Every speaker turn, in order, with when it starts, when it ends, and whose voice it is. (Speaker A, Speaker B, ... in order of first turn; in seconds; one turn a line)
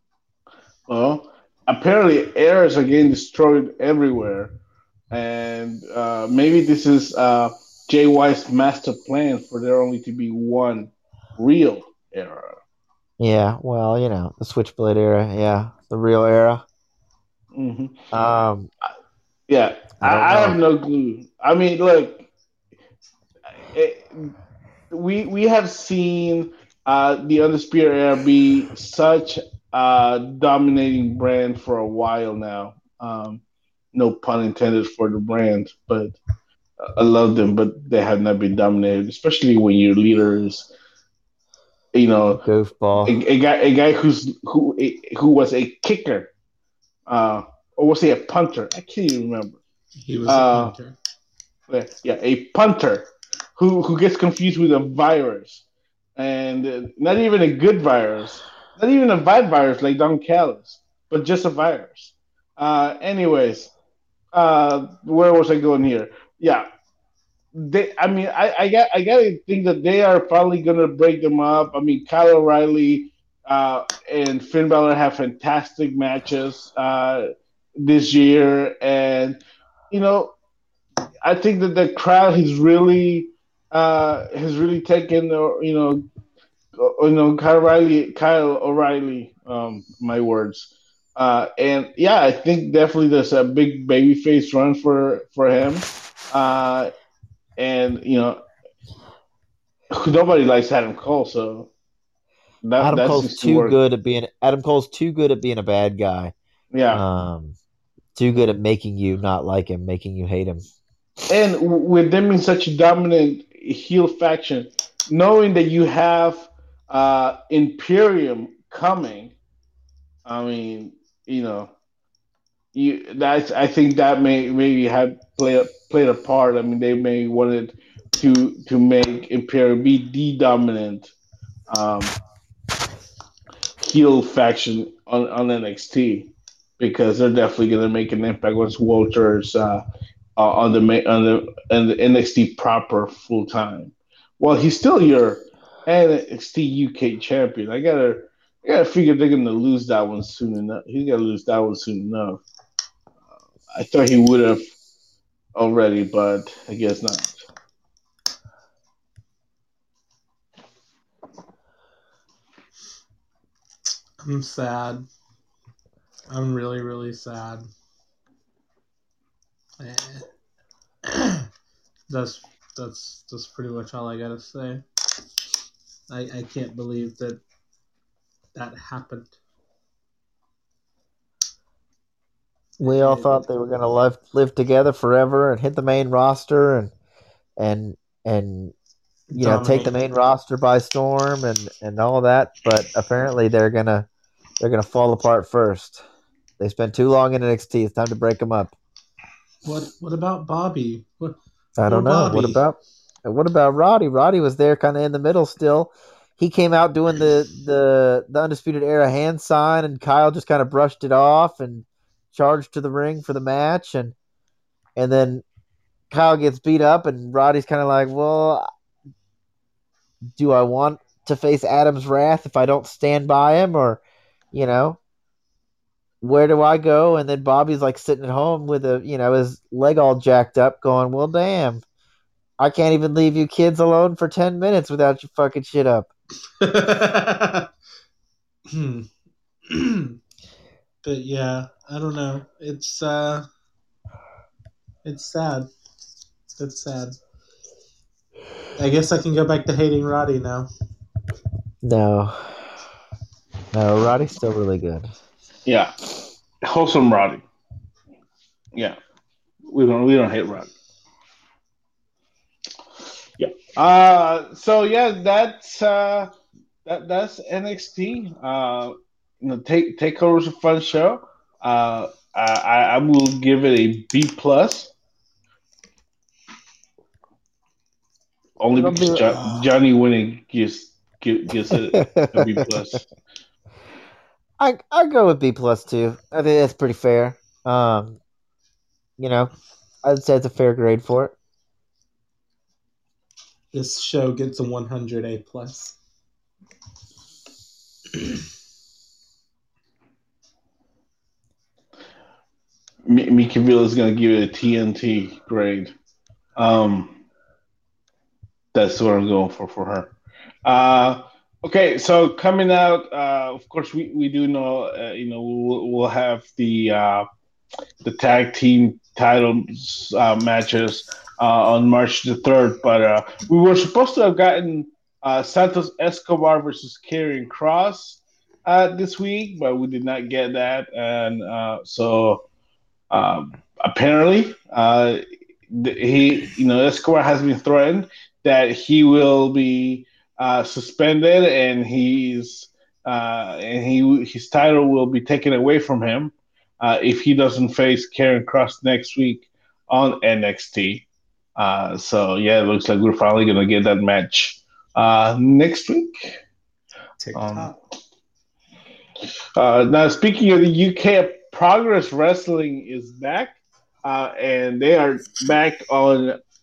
Speaker A: 0.9-4.5
Speaker A: 5.1-12.6
Speaker B: 13.2-16.6
Speaker A: 17.5-18.0
Speaker B: 18.1-18.7
Speaker A: 19.5-22.3
Speaker B: 20.0-20.6
Speaker A: 23.6-24.3
Speaker A: 24.9-33.4
Speaker A: 33.9-36.2
Speaker A: 36.8-40.7
Speaker A: 41.9-42.4
Speaker B: 42.4-43.2
Speaker A: 43.0-46.3
Speaker A: 47.1-49.6
Speaker C: 50.0-50.9
Speaker A: 50.3-50.8
Speaker A: 51.7-55.6
Speaker A: 56.2-63.7
Speaker A: 64.3-66.7
Speaker A: 67.5-80.3
Speaker A: 81.2-86.0
Speaker A: 86.8-96.9
Speaker A: 97.6-98.4
Speaker A: 99.9-101.7
Speaker A: 102.6-103.8
Speaker B: 102.8-106.3
Speaker A: 106.7-107.0
Speaker B: 106.9-107.6
Speaker B: 108.2-110.6
Speaker A: 111.3-119.3
Speaker A: 120.2-121.7
Speaker A: 122.7-131.1
Speaker A: 131.7-132.2
Speaker A: 133.8-139.8
Speaker A: 140.4-152.4
Speaker A: 153.7-154.7
Speaker A: 155.5-157.4
Speaker C: 164.2-165.1
Speaker C: 166.3-167.7
Speaker C: 169.8-170.3
Speaker C: 171.0-171.5
Speaker C: 172.1-174.8
Speaker C: 176.1-177.4
Speaker C: 178.5-179.3
Speaker C: 182.8-183.4
Speaker B: 182.8-186.9
Speaker B: 187.6-188.7
Speaker C: 189.3-189.9
Speaker B: 189.3-194.1
Speaker B: 194.6-196.0
Speaker B: 196.6-198.7
Speaker C: 199.6-201.3
Speaker B: 201.8-214.2
Speaker C: 201.9-202.6
Speaker B: 214.9-215.4
Speaker B: 216.1-218.7
Speaker B: 220.3-224.0
Speaker B: 224.5-225.0
Speaker B: 226.2-231.8
Speaker B: 232.6-236.1
Speaker C: 236.6-237.7
Speaker C: 238.7-239.1
Speaker C: 239.7-240.2
Speaker C: 241.0-243.4
Speaker C: 245.0-245.7
Speaker C: 246.5-247.2
Speaker C: 248.8-250.7
Speaker B: 251.8-252.7
Speaker B: 253.7-255.1
Speaker A: 255.7-256.1
Speaker A: 256.6-257.4
Speaker A: 259.7-260.7
Speaker A: 263.4-266.3
Speaker A: 266.8-274.9
Speaker A: 278.6-283.1
Speaker C: 278.8-279.7
Speaker B: 281.7-282.8
Speaker B: 284.6-288.2
Speaker B: 289.2-289.5
Speaker B: 290.0-291.3
Speaker C: 293.7-295.9
Speaker A: 303.1-305.9
Speaker A: 306.6-307.2
Speaker A: 308.7-317.3
Speaker A: 318.0-332.4
Speaker A: 333.1-351.1
Speaker A: 351.6-356.4
Speaker C: 357.2-357.7
Speaker A: 357.3-357.7
Speaker A: 359.6-366.4